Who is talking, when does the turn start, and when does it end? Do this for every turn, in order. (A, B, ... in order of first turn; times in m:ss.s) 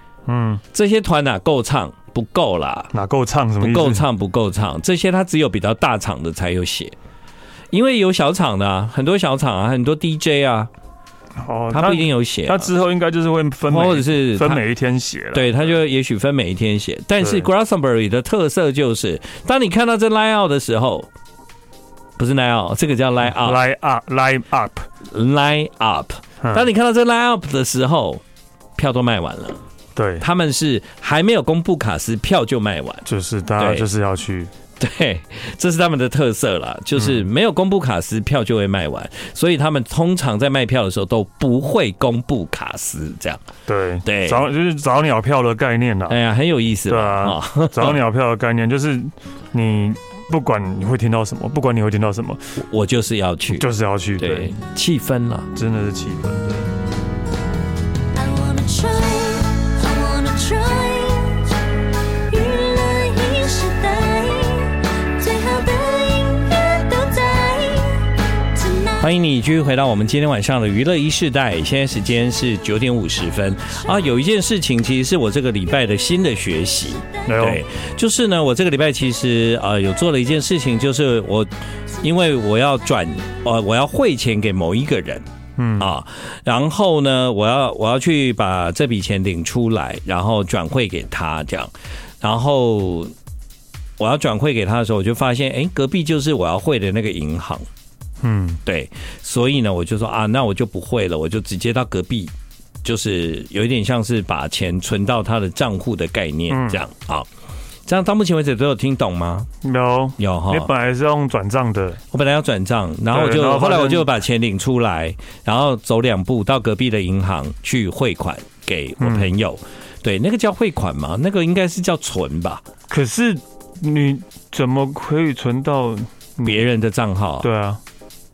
0:00.2-0:00.6 A
0:00.7-0:02.9 B
0:02.9-0:04.0 A
0:03.6-0:06.9 B
0:07.7-0:10.7 B
0:11.4-0:15.7 A
0:11.7-0:12.7 B
0:13.7-0:14.6 B
0:15.3-0:21.1 B
0:17.2-0:17.5 A
0:22.2-0:23.6 B
0:23.3-0:24.9 A
0:25.0-0:28.2 B
0:26.4-0:26.7 A
0:28.8-0:29.6 B
0:29.9-0:30.2 A
0:30.2-0:33.0 B
0:33.0-0:34.5 A
0:33.6-0:33.8 B
0:34.8-0:43.4 B
0:37.0-0:37.2 A
0:43.7-0:46.2 A
0:44.0-0:44.4 B
0:46.1-0:48.0 B
0:46.9-0:52.4 A
0:52.6-0:53.7 B
0:53.5-0:54.5 A
0:54.2-0:55.5 B
0:55.5-0:56.7 A
0:58.1-1:01.5 C
1:02.3-1:09.1 C
1:09.0-1:21.5 B
1:17.2-1:17.6 A
1:22.0-1:25.2 B
1:25.6-1:25.9 A
1:25.8-1:33.1 B
1:34.0-1:37.7 B
1:38.2-1:38.6 A
1:38.6-1:42.3 B
1:42.8-1:47.3 B
1:46.5-1:46.8 A
1:47.9-1:49.5 B
1:49.6-1:52.0 A
1:50.2-1:50.7 B
1:52.1-2:02.6 B
1:53.1-1:54.1 A
1:59.0-1:59.3 A
2:02.9-2:06.6 A
2:06.4-2:07.5 B
2:07.4-2:07.8 A